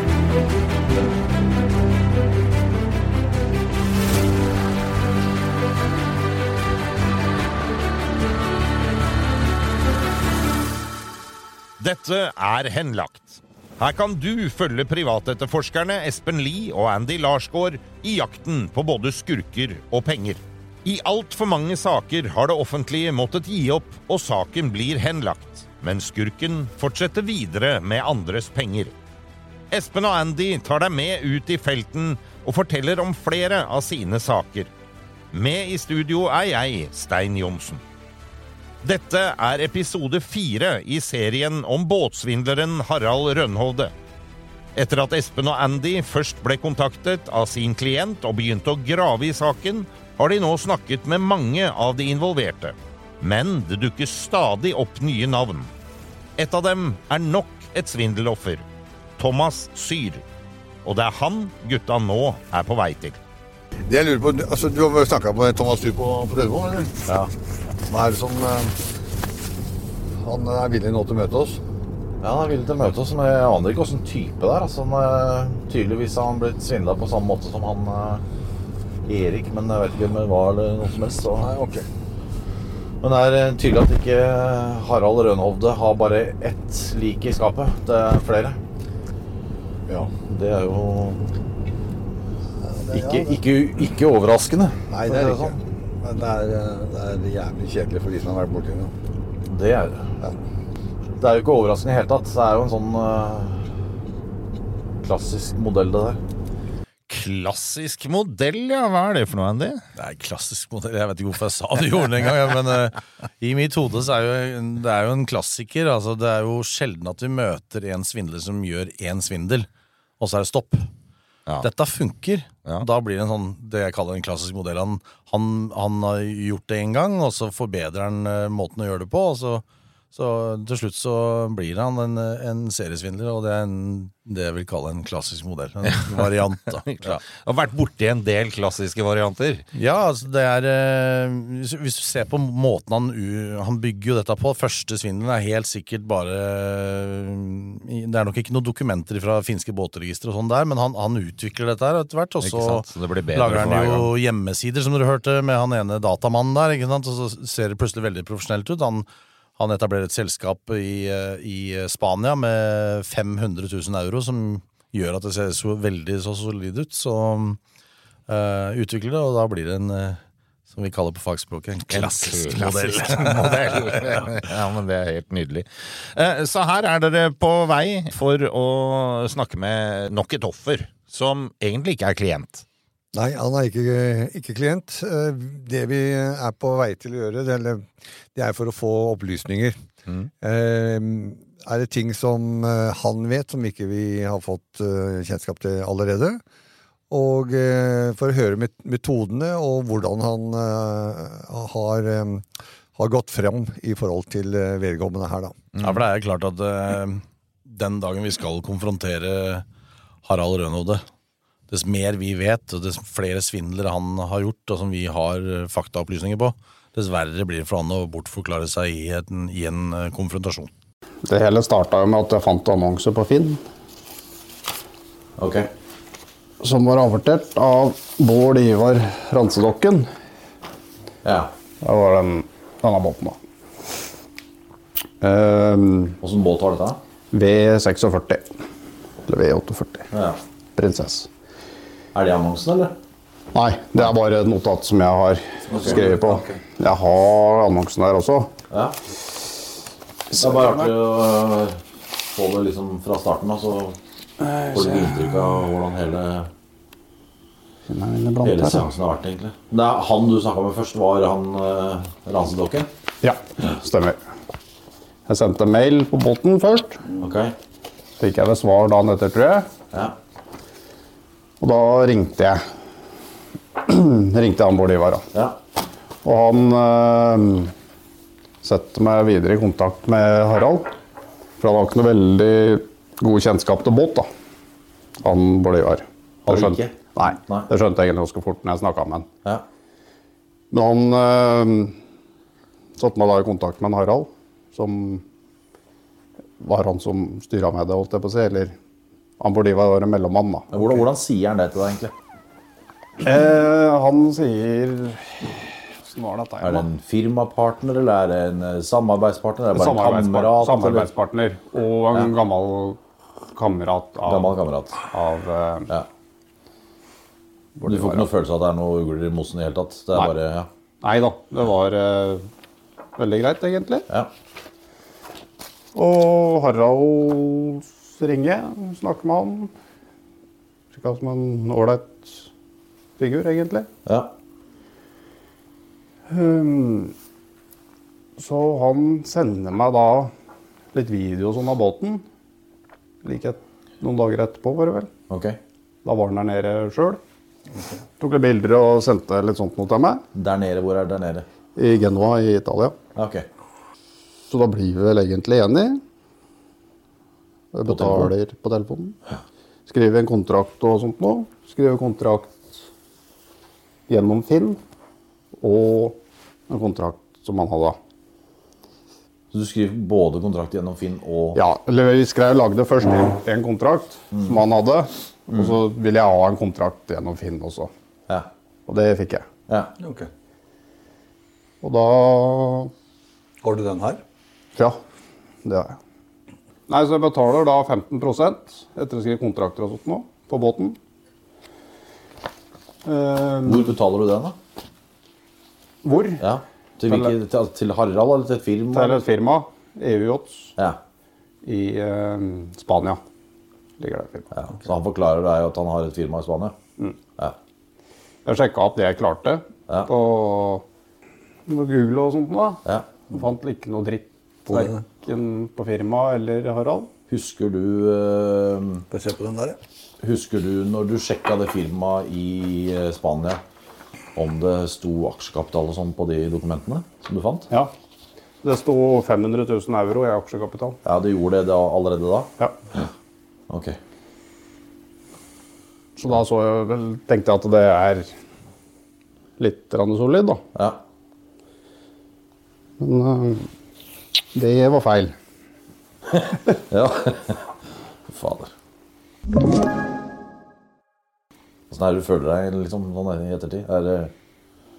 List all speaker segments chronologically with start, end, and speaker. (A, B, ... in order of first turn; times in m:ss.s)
0:11.8-0:28.9 A
0:29.7-0:34.7 A
0:35.3-0:37.8 A
0:38.8-0:43.9 A
0:44.7-0:55.7 A
0:56.4-0:58.6 A
0:59.2-1:00.2 A
1:00.8-1:03.2 A
1:03.9-1:06.9 B
1:07.9-1:08.7 B
1:10.2-1:11.6 B
1:12.2-1:18.2 C
1:19.0-1:21.5 C
1:21.4-1:21.8 B
1:23.0-1:28.6 C
1:30.3-1:31.2 C
1:32.7-1:33.3 B
1:32.9-1:35.6 C
1:34.9-1:38.9 B
1:36.1-1:38.9 D
1:39.4-1:40.1 C
1:41.2-1:43.7 C
1:45.0-1:46.2 C
1:47.1-1:49.8 A
1:50.0-1:59.7 E
2:00.2-2:00.9 E
2:01.6-2:17.2 E
2:16.7-2:19.6 A
2:19.7-2:47.6 E
2:32.4-2:34.1 A
2:48.3-2:54.4 E
2:51.9-3:02.6 A
3:03.1-3:09.8 B
3:10.4-3:16.4 B
3:17.1-3:25.6 B
3:25.8-3:29.6 E
3:30.2-3:31.0 E
3:31.7-3:40.7 E
3:41.2-3:43.6 F
3:45.4-3:45.7 C
3:46.6-3:50.1 F
3:51.2-3:51.5 C
3:51.8-3:53.4 F
3:55.2-3:56.2 F
3:56.2-3:57.0 C
3:57.3-3:58.5 F
3:59.2-4:00.1 F
4:00.1-4:00.4 C
4:00.8-4:01.3 F
4:02.1-4:03.0 C
4:03.5-4:08.5 F
4:05.7-4:06.6 C
4:08.7-4:09.0 C
4:10.3-4:10.9 F
4:10.4-4:14.0 C
4:14.5-4:14.8 F
4:14.6-4:16.5 C
4:17.9-4:18.8 F
4:18.4-4:22.9 C
4:23.2-4:24.2 F
4:25.3-4:27.0 F
4:27.2-4:27.5 C
4:28.2-4:29.7 F
4:31.6-4:32.6 F
4:33.8-4:35.2 F
4:35.3-4:35.6 C
4:36.2-4:37.7 F
4:38.6-4:40.9 F
4:41.6-4:44.3 F
4:45.2-4:49.3 F
4:46.4-4:46.9 C
4:50.7-4:52.0 F
4:53.0-4:55.2 F
4:56.6-4:58.7 F
4:59.4-5:00.7 F
5:00.7-5:02.1 C
5:03.2-5:06.9 F
5:06.6-5:11.1 C
5:09.7-5:13.0 F
5:13.5-5:14.5 F
5:14.2-5:15.0 C
5:15.1-5:15.9 F
5:17.8-5:18.3 F
5:17.9-5:20.7 C
5:21.0-5:22.5 F
5:23.2-5:24.0 F
5:25.9-5:29.7 F
5:30.9-5:32.5 F
5:33.2-5:33.9 F
5:34.0-5:34.3 C
5:36.3-5:37.1 F
5:38.4-5:40.3 F
5:40.9-5:42.2 F
5:43.2-5:45.1 F
5:45.3-5:45.6 C
5:46.0-5:47.2 F
5:48.2-5:50.2 F
5:50.3-5:51.4 C
5:51.8-5:52.9 F
5:53.1-5:53.4 C
5:54.5-5:56.0 F
5:57.7-5:59.2 F
5:57.9-5:58.3 C
5:59.9-6:02.8 F
6:04.1-6:04.8 F
6:05.6-6:06.2 F
6:06.7-6:08.0 F
6:09.5-6:11.6 C
6:11.5-6:17.9 F
6:14.3-6:14.6 C
6:18.9-6:19.4 F
6:19.7-6:19.9 C
6:20.0-6:20.3 D
6:21.8-6:22.9 F
6:23.6-6:24.2 D
6:25.6-6:26.0 F
6:26.9-6:31.0 F
6:33.0-6:33.9 F
6:33.6-6:34.6 C
6:36.0-6:36.4 F
6:36.4-6:39.2 C
6:37.0-6:37.3 F
6:38.9-6:40.7 F
6:41.6-6:43.2 F
6:44.0-6:44.5 F
6:44.5-6:46.8 C
6:48.4-6:50.8 F
6:51.7-6:57.1 F
6:54.7-6:55.0 D
6:57.3-6:59.0 C
6:59.1-6:59.8 D
7:00.2-7:03.6 C
7:04.4-7:07.7 C
7:08.6-7:11.0 F
7:11.0-7:13.1 C
7:13.7-7:14.0 C
7:16.2-7:18.3 F
7:19.6-7:20.6 F
7:20.7-7:21.0 C
7:23.0-7:23.7 F
7:24.5-7:25.3 F
7:26.3-7:27.7 C
7:28.3-7:28.7 C
7:31.9-7:34.3 C